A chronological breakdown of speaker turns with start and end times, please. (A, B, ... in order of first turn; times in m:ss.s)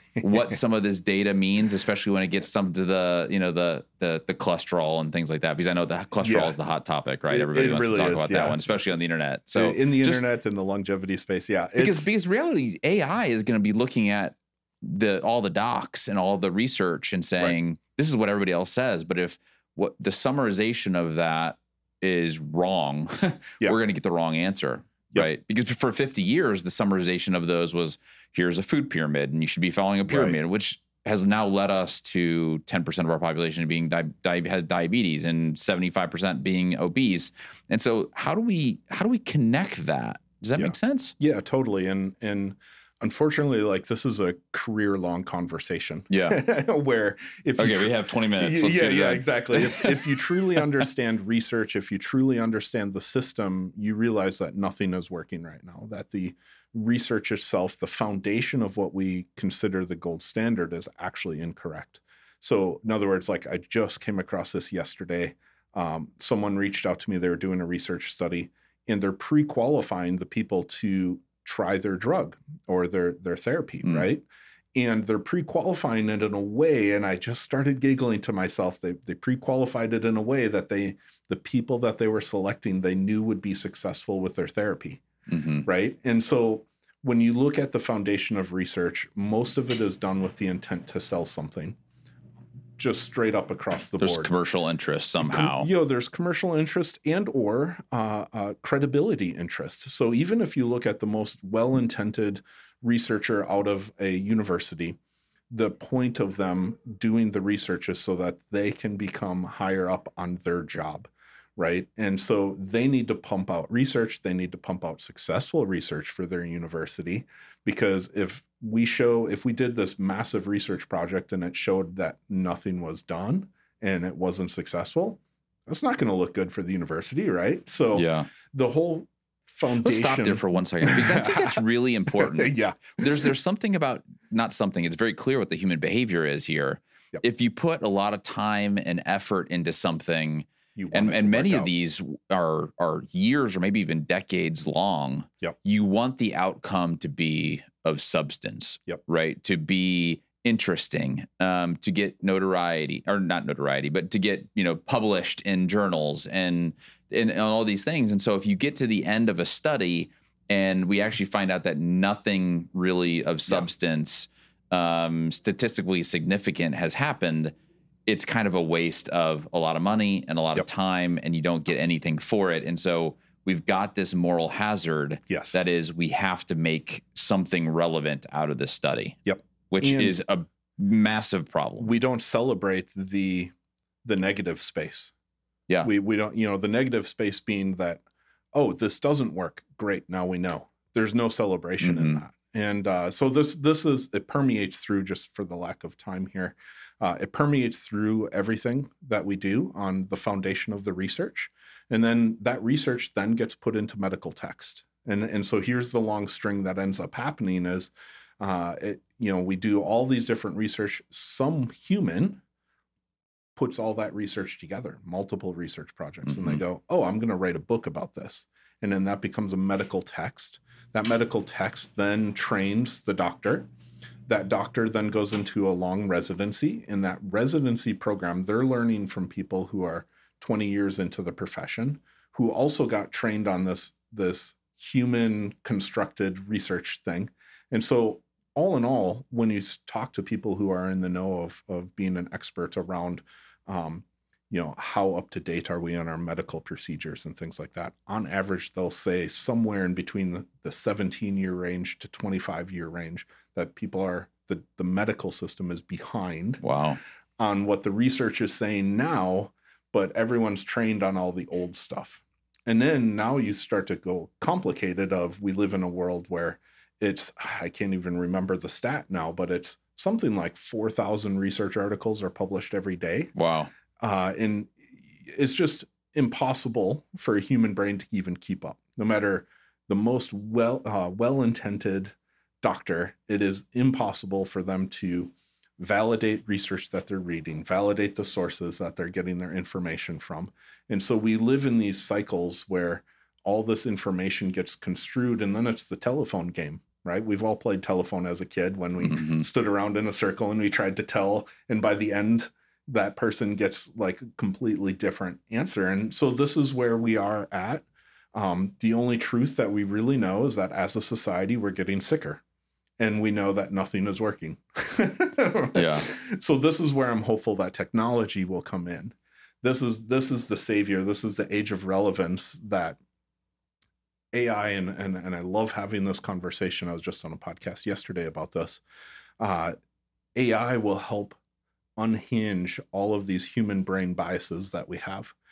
0:00.2-0:10.2 A
0:06.2-0:06.6 B
0:07.3-0:08.6 B
0:09.6-0:12.1 B
0:11.8-0:41.1 A
0:30.1-0:30.4 B
0:40.6-1:25.0 B
0:46.1-0:46.4 A
0:47.6-0:50.2 A
1:25.3-1:25.7 A
1:25.6-1:31.8 B
1:32.8-1:34.3 B
1:34.0-1:35.7 A
1:35.2-1:45.0 B
1:45.5-2:11.6 B
2:07.9-2:08.3 A
2:09.8-2:47.6 A
2:12.1-2:13.3 B
2:20.8-2:21.7 B
2:48.1-2:59.2 A
2:55.3-2:55.6 B
2:59.2-3:00.2 B
2:59.7-3:01.9 A
3:01.8-3:03.5 B
3:04.0-3:05.1 B
3:05.8-3:08.0 B
3:08.5-3:32.4 B
3:11.8-3:12.2 A
3:33.6-3:43.7 B
3:36.2-3:36.6 A
3:44.2-4:16.6 B
4:16.6-4:17.0 A
4:17.4-4:33.3 B
4:33.3-4:33.7 A
4:34.0-5:12.4 B
4:59.0-4:59.4 A
5:13.0-5:23.0 B
5:15.7-5:16.1 A
5:24.3-5:28.8 B
5:29.4-5:29.8 B
5:30.3-5:31.4 B
5:32.0-5:35.3 B